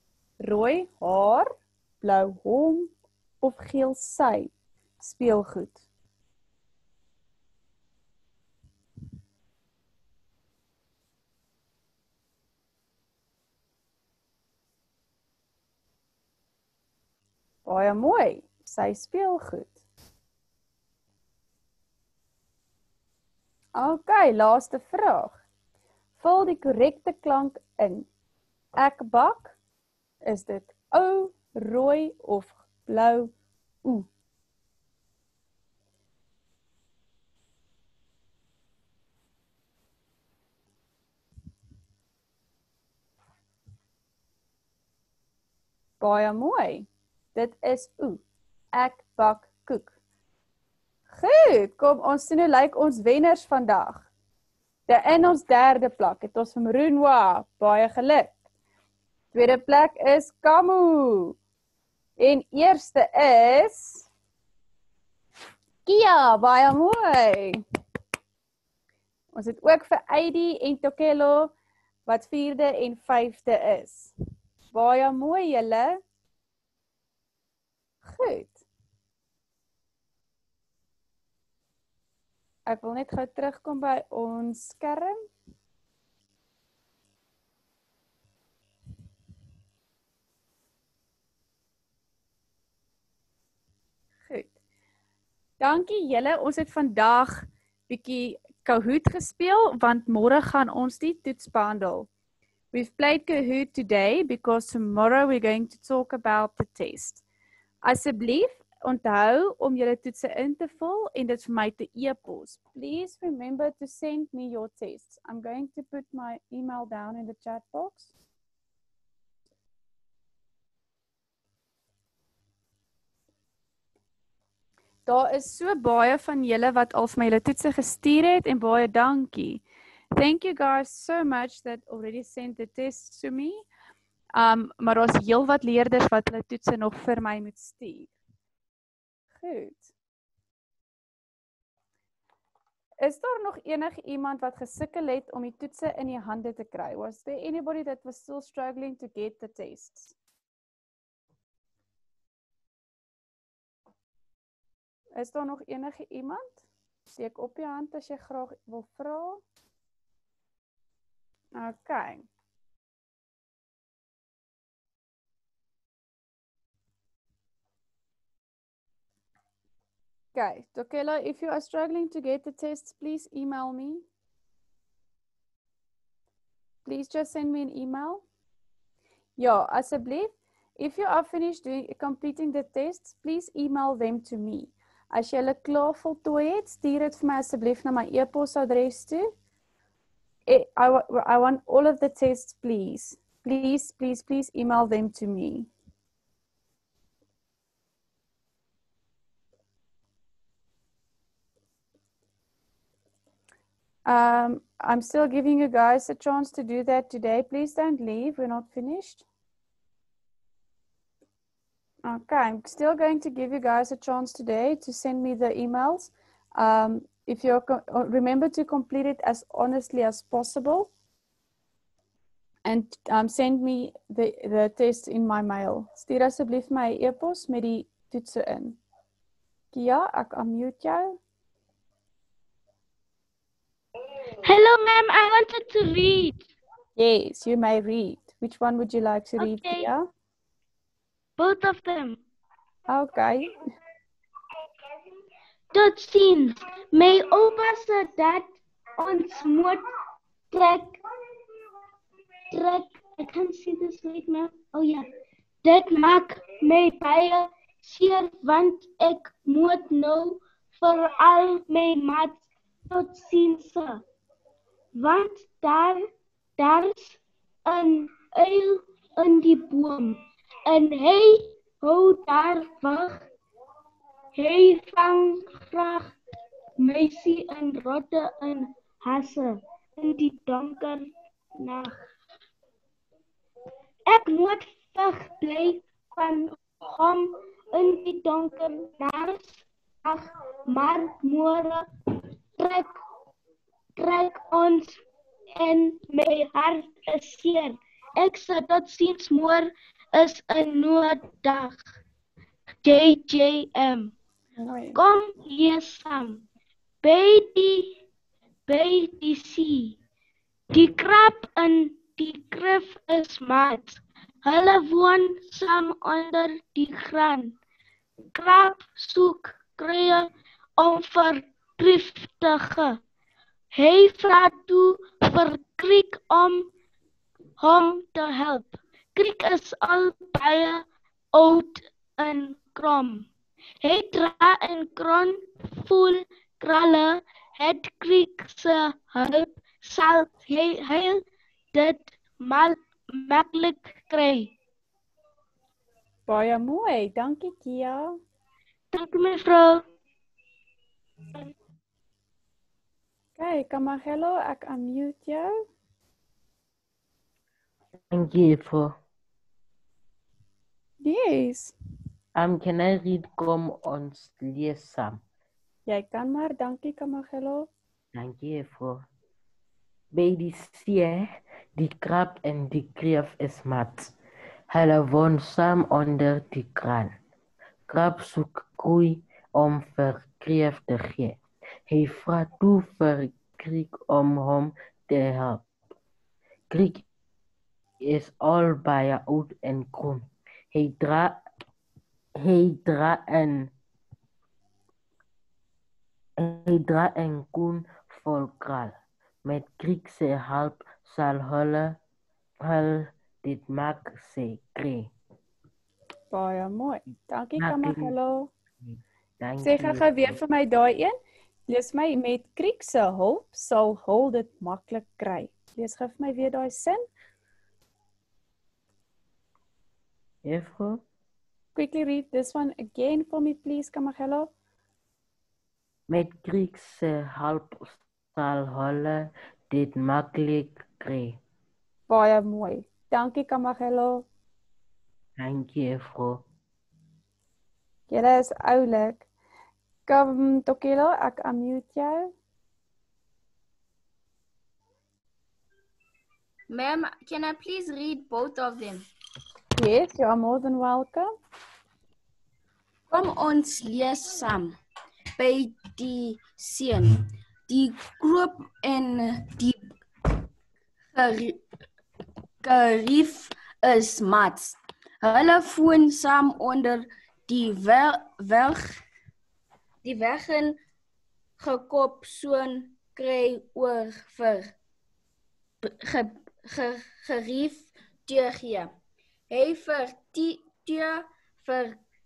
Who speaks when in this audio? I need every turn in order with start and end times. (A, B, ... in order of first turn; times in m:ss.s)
0:00.4-0:05.8 A
0:17.6-0:19.8 A
0:23.7-0:25.4 A
0:26.2-0:28.1 A
0:28.8-0:29.6 A
0:30.2-0:33.3 A
0:46.0-0:49.9 A
0:51.1-0:54.1 A
0:54.9-0:58.3 A
0:59.3-1:01.4 A
1:02.2-1:04.1 A
1:05.8-1:07.6 A
1:09.3-1:11.5 A
1:12.0-1:14.1 A
1:14.7-1:16.0 A
1:18.0-1:18.6 A
1:22.7-1:25.2 A
1:34.3-1:34.5 A
1:35.6-1:42.1 A
1:42.7-1:47.2 A
1:47.8-1:58.1 A
2:05.0-2:09.6 A
2:10.2-2:13.6 A
2:14.4-2:18.1 A
2:19.4-2:19.9 A
2:23.0-2:30.1 A
2:35.2-2:39.4 A
2:41.6-2:42.3 A
2:50.3-2:54.0 A
2:56.8-2:58.2 A
2:59.4-3:09.2 A
3:10.5-3:15.7 A
3:24.0-3:29.2 A
3:32.0-3:40.9 A
3:42.6-3:48.8 A
3:49.7-3:51.2 A
3:54.4-3:56.4 B
3:57.0-4:00.1 A
3:59.4-3:59.9 B
4:01.4-4:02.2 B
4:02.9-4:03.6 A
4:05.7-4:09.8 B
4:10.5-4:11.0 B
4:12.5-4:15.0 B
4:15.6-4:24.0 B
4:25.0-4:26.0 B
4:26.6-4:33.2 B
4:34.3-4:36.1 B
4:36.8-4:42.0 B
4:44.0-4:51.9 B
4:52.6-4:53.0 B
4:54.0-4:55.0 B
4:55.6-5:01.8 B
5:02.8-5:04.1 B
5:04.6-5:05.0 A
5:04.9-5:06.4 B
5:07.0-5:08.0 B
5:08.7-5:10.0 B
5:10.7-5:17.5 B
5:18.3-5:23.0 B
5:23.7-5:26.7 B
5:27.6-5:33.3 B
5:33.8-5:44.5 B
5:46.3-5:48.2 A
5:48.9-5:49.8 B
5:53.4-5:55.5 A
5:58.1-5:58.9 C
6:01.0-6:01.7 A
6:02.3-6:05.2 C
6:05.9-6:07.7 A
6:08.1-6:09.1 C
6:10.1-6:14.1 C
6:14.7-6:17.1 C
6:17.9-6:25.7 C
6:26.7-6:27.0 C
6:28.0-6:31.4 C
6:32.4-6:33.7 C
6:36.4-6:38.9 C
6:39.4-6:42.0 C
6:42.6-6:45.1 C
6:46.3-6:48.5 A
6:47.6-6:48.1 C
6:48.8-6:50.4 C
6:49.6-6:51.1 A
6:51.7-6:57.0 A
7:00.4-7:01.0 C
7:01.7-7:04.5 A
7:06.1-7:11.4 C
7:12.1-7:14.2 A
7:15.4-7:16.4 C
7:18.1-7:19.3 A
7:20.1-7:22.3 A
7:26.7-7:29.0 D
7:29.8-7:31.3 A
7:33.1-7:34.8 D
7:35.4-7:39.8 D
7:41.1-7:41.6 D
7:42.6-7:49.0 D
7:50.0-7:50.8 D
7:51.6-7:54.7 D
7:55.8-7:58.9 D
7:59.5-8:02.0 D